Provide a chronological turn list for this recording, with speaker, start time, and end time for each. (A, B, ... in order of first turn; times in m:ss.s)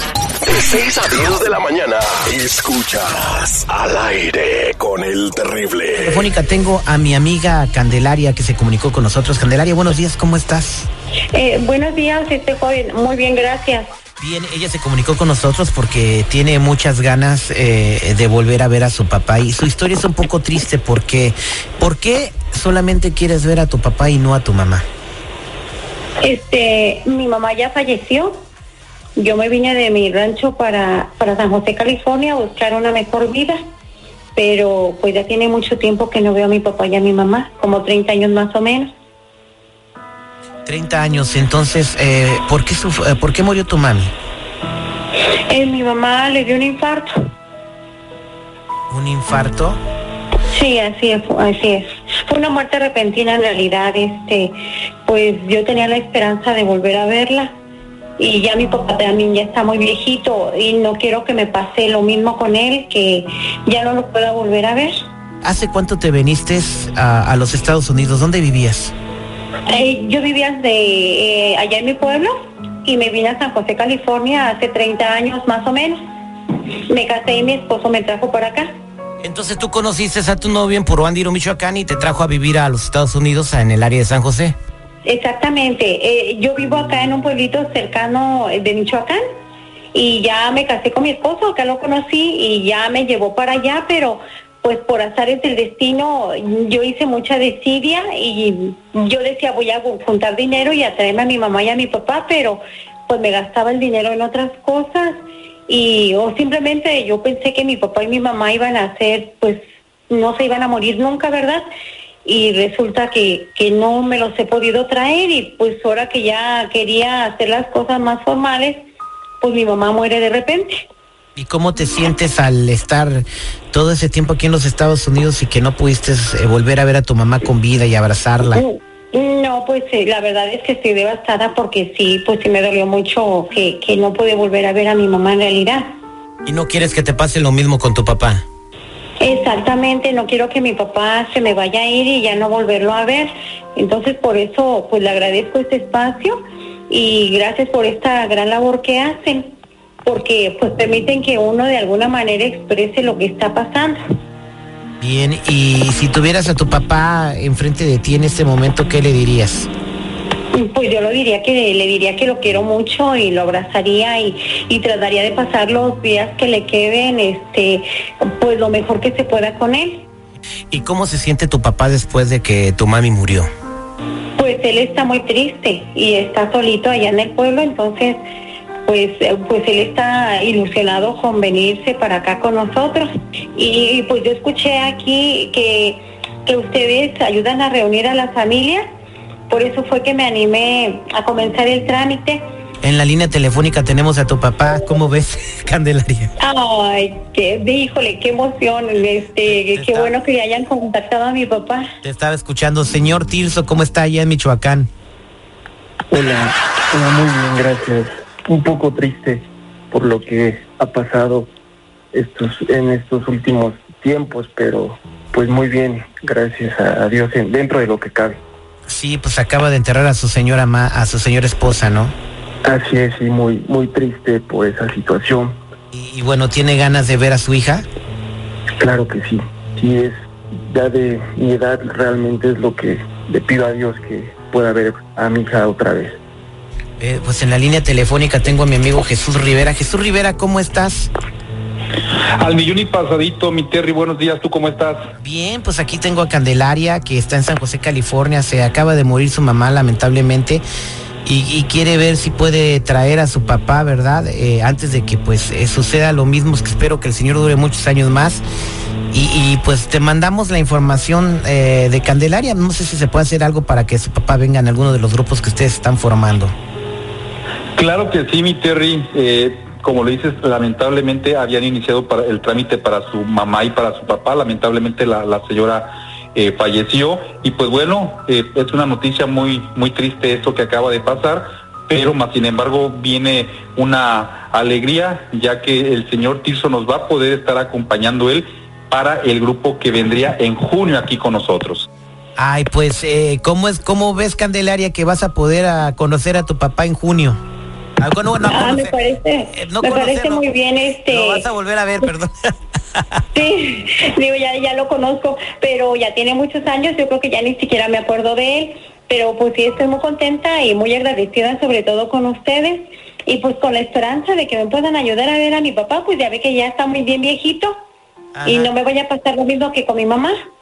0:00.4-0:06.2 A
0:06.0-0:10.9 B
0:11.3-0:13.9 C
0:14.2-0:24.8 B
0:26.2-0:28.4 C
0:29.2-0:33.6 C
0:34.3-0:38.9 C
0:40.6-0:44.1 B
0:45.5-0:47.1 C
0:48.9-0:49.8 B
0:50.5-0:57.5 C
0:58.2-1:05.0 C
1:05.4-1:08.9 B
1:09.7-1:16.0 C
1:16.9-1:18.7 C
1:19.2-1:24.6 B
1:25.0-1:29.2 C
1:29.9-1:51.6 C
1:52.2-1:58.8 C
1:59.4-2:00.8 C
2:01.4-2:08.6 B
2:08.5-2:15.9 C
2:16.4-2:18.4 B
2:19.2-2:34.0 C
2:35.0-2:39.7 B
2:40.5-2:50.1 C
2:50.7-2:53.5 B
2:54.4-2:58.2 C
2:58.8-3:08.8 C
3:09.5-3:12.4 C
3:12.8-3:16.3 B
3:16.4-3:21.9 C
3:19.5-3:20.1 B
3:22.0-3:24.9 B
3:26.1-3:31.5 D
3:32.1-3:38.4 D
3:38.9-3:42.1 B
3:42.6-3:45.6 D
3:45.9-3:47.8 B
3:48.8-3:50.2 D
3:50.7-3:56.2 D
3:57.0-4:01.1 B
4:02.4-4:05.0 E
4:05.2-4:10.6 B
4:11.2-4:18.4 B
4:19.1-4:26.5 B
4:27.8-4:51.9 E
4:52.4-4:57.4 B
4:58.0-4:58.9 B
4:58.5-5:01.4 C
4:59.5-5:00.4 B
5:01.1-5:02.3 B
5:03.0-5:03.2 B
5:03.3-5:17.8 C
5:18.3-5:18.7 B
5:18.4-5:20.4 C